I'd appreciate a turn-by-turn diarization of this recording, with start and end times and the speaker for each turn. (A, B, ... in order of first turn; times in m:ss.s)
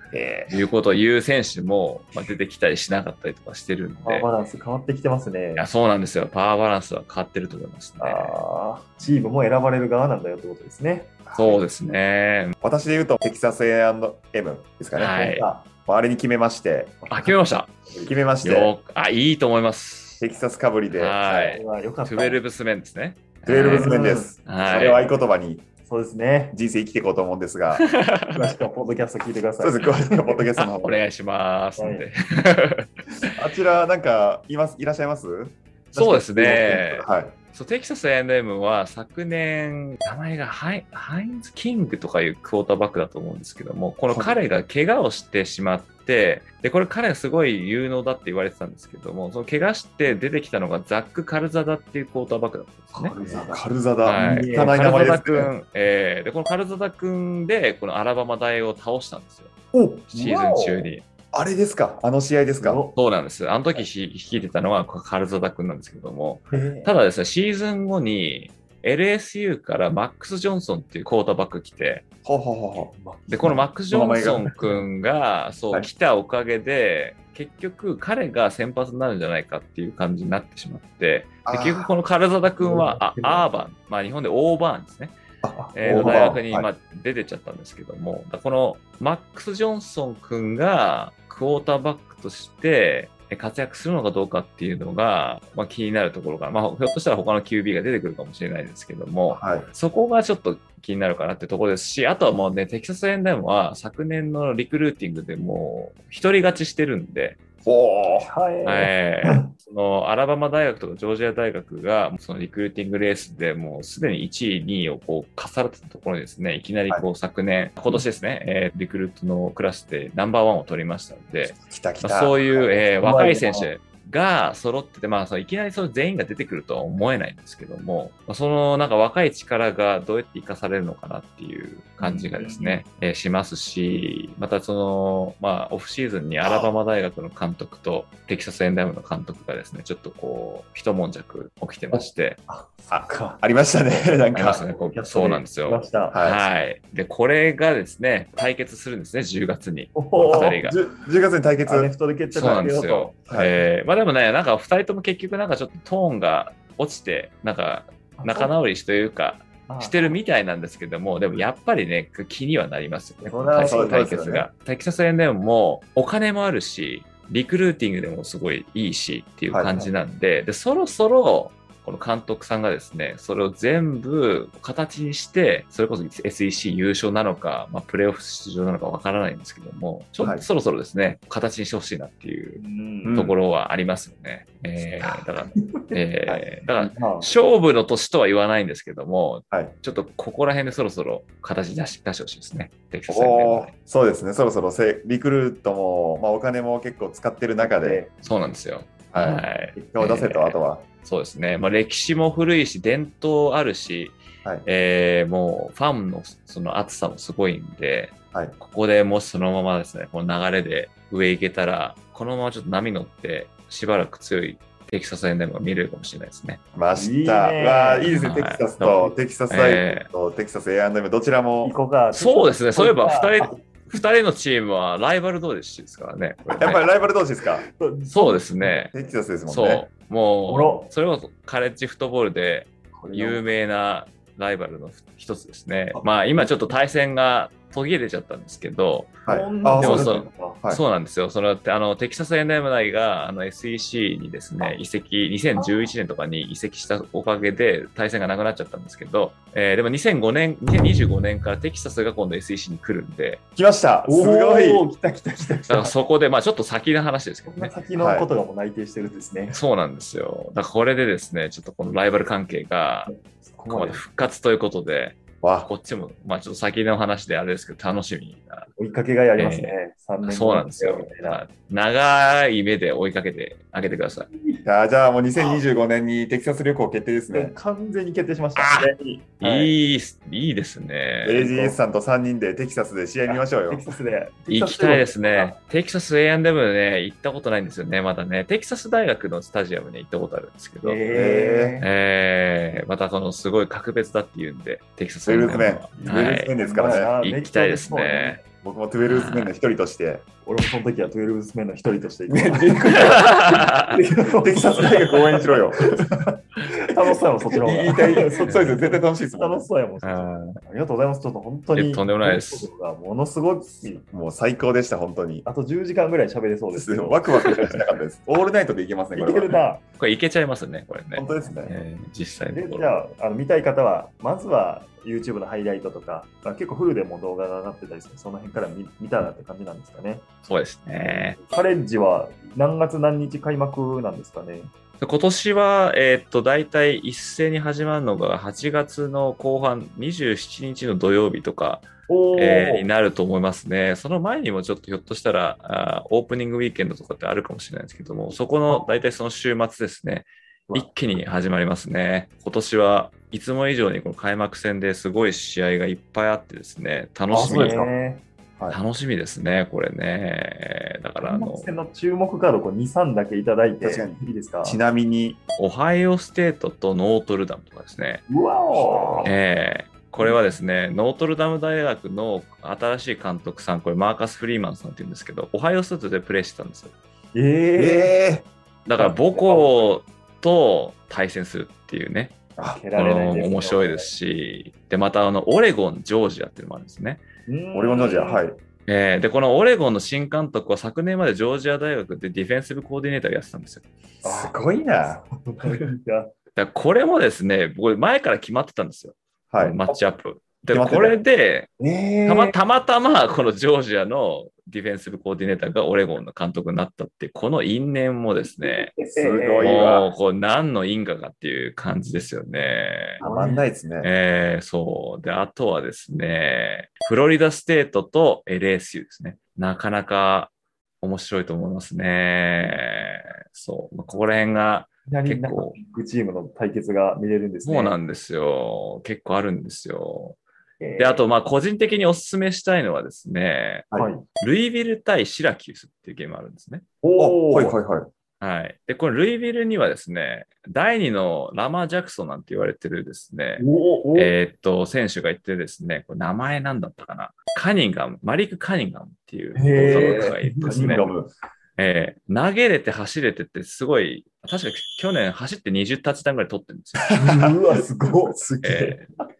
0:00.1-0:00.4 A
0:00.5-0:04.3 B
0:04.0-0:05.7 C
0:05.6-0:08.4 B
0:08.0-0:11.1 C
0:11.2-0:11.7 A
0:11.3-0:12.6 B
0:12.6-0:17.3 A
0:14.9-0:15.5 B
0:17.1-0:17.7 B
0:18.0-0:18.7 A
0:18.4-0:20.2 B
0:20.2-0:21.6 A
0:20.9-0:25.0 B
0:21.5-0:22.4 C
0:23.4-0:25.6 A
0:23.7-0:24.8 C
0:25.8-0:26.6 C
0:26.5-0:27.8 A
0:27.7-0:28.6 B
0:28.3-0:30.4 C
0:29.6-0:31.0 A
0:30.6-0:33.1 B
0:31.8-0:32.0 C
0:33.3-0:37.4 A
0:35.9-0:53.2 B
0:44.1-0:44.4 A
0:53.0-0:54.8 C
0:53.2-0:55.5 A
0:54.0-0:59.5 B
0:59.7-1:02.8 A
1:00.1-1:01.0 B
1:00.3-1:00.7 C
1:02.5-1:03.0 C
1:02.9-1:12.0 B
1:06.5-1:06.9 C
1:12.2-1:14.5 A
1:12.8-1:13.7 C
1:13.3-1:25.1 B
1:21.4-1:21.9 A
1:22.6-1:23.5 C
1:25.4-1:26.7 A
1:25.8-1:47.4 B
1:39.3-1:39.7 A
1:47.6-1:48.3 A
1:48.3-1:49.5 C
1:48.6-2:22.4 B
2:01.5-2:02.8 A
2:03.0-2:03.7 C
2:12.0-2:12.8 C
2:16.4-2:16.7 A
2:22.5-2:23.4 C
2:22.9-2:24.7 A
2:24.3-2:30.8 B
2:24.7-2:26.2 C
2:26.1-2:26.4 A
2:29.9-2:30.6 C
2:30.6-2:32.6 A
2:31.6-2:33.2 C
2:32.3-3:13.7 B
2:33.2-2:33.6 A
2:38.2-2:38.6 C
2:39.7-2:40.2 C
2:43.2-2:44.1 C
2:43.6-2:44.5 A
2:49.5-2:49.9 A
3:00.2-3:00.5 A
3:02.6-3:03.2 C
3:03.0-3:03.4 A
3:06.2-3:06.6 A
3:06.8-3:07.3 C
3:13.1-3:18.0 A
3:17.6-3:18.1 C
3:18.2-3:36.6 B
3:19.1-3:20.8 A
3:36.8-3:41.8 A
3:36.9-3:38.1 C
3:38.1-3:40.1 B
3:41.6-3:43.6 C
3:42.1-3:46.8 B
3:46.5-3:47.6 A
3:47.6-3:48.9 C
3:48.1-3:48.9 B
3:48.9-3:49.9 A
3:49.5-3:59.2 B
3:50.5-3:50.9 C
3:53.0-3:53.4 A
3:53.0-3:53.4 C
3:55.9-3:56.5 A
3:59.2-4:00.8 A
3:59.2-4:00.6 C
3:59.8-4:13.4 B
4:05.6-4:05.9 C
4:13.6-4:14.8 A
4:14.1-4:15.9 C
4:15.7-4:17.8 B
4:17.5-4:19.6 C
4:18.0-4:18.3 A
4:19.5-4:23.1 B
4:23.1-4:24.0 C
4:23.7-4:28.7 B
4:25.4-4:25.7 A
4:28.8-4:31.4 C
4:29.4-4:34.3 B
4:34.3-4:34.6 C
4:34.6-4:37.6 A
4:37.3-4:39.8 C
4:38.6-4:41.4 B
4:41.2-4:43.8 A
4:41.4-4:41.8 C
4:43.3-4:45.6 C
4:44.4-4:51.0 B
4:50.8-4:51.9 C
4:51.1-4:51.8 A
4:51.8-4:56.6 B
4:55.2-4:57.1 A
4:55.9-4:58.4 C
4:57.2-4:58.4 B
4:58.6-5:00.2 A
4:59.1-4:59.6 B
5:00.4-5:14.0 C
5:02.3-5:06.1 A
5:02.9-5:03.9 B
5:07.6-5:09.7 A
5:08.4-5:08.8 B
5:10.0-5:10.3 B
5:11.7-5:12.7 B
5:14.0-5:15.4 A
5:15.4-5:17.2 C
5:16.7-5:19.6 A
5:17.3-5:17.8 B
5:19.1-5:19.8 C
5:20.0-5:23.0 B
5:21.1-5:21.8 A
5:22.5-5:30.2 C
5:30.4-5:31.4 B
5:31.0-5:34.7 C
5:35.0-5:57.9 B
5:42.1-5:42.8 C
5:57.3-5:58.2 C
5:57.4-5:57.9 A
5:58.7-6:01.7 B
6:01.2-6:04.8 C
6:03.8-6:05.4 A
6:05.6-6:08.2 B
6:08.3-6:09.4 C
6:08.7-6:09.4 A
6:09.2-6:16.9 B
6:17.3-6:18.1 C
6:17.8-6:18.5 A
6:18.9-6:22.4 B
6:19.0-6:19.9 C
6:22.6-6:22.8 A
6:22.6-6:24.1 C
6:22.9-6:27.2 B
6:27.5-6:28.5 C
6:27.7-6:28.6 A
6:28.9-6:33.9 B
6:34.2-6:36.3 C
6:34.2-6:35.2 A
6:36.6-6:41.7 B
6:39.5-6:40.0 A
6:40.7-6:41.2 A
6:41.8-6:42.5 A
6:42.2-6:48.9 B
6:48.5-6:49.8 C
6:49.1-6:50.1 A
6:49.6-6:53.2 B
6:53.2-6:54.1 A
6:53.2-6:53.7 C
6:54.0-7:05.8 B
7:05.1-7:08.0 C
7:07.6-7:10.4 B
7:10.8-7:11.2 C
7:11.0-7:16.8 B
7:13.9-7:14.2 C
7:17.0-7:17.8 C
7:17.2-7:18.1 A
7:18.4-7:31.1 B
7:23.6-7:24.4 C
7:29.5-7:31.2 C
7:29.7-7:31.3 A
7:31.8-7:37.2 B
7:37.1-7:37.4 A
7:37.1-7:38.4 C
7:38.4-7:39.0 A
7:38.6-7:39.1 B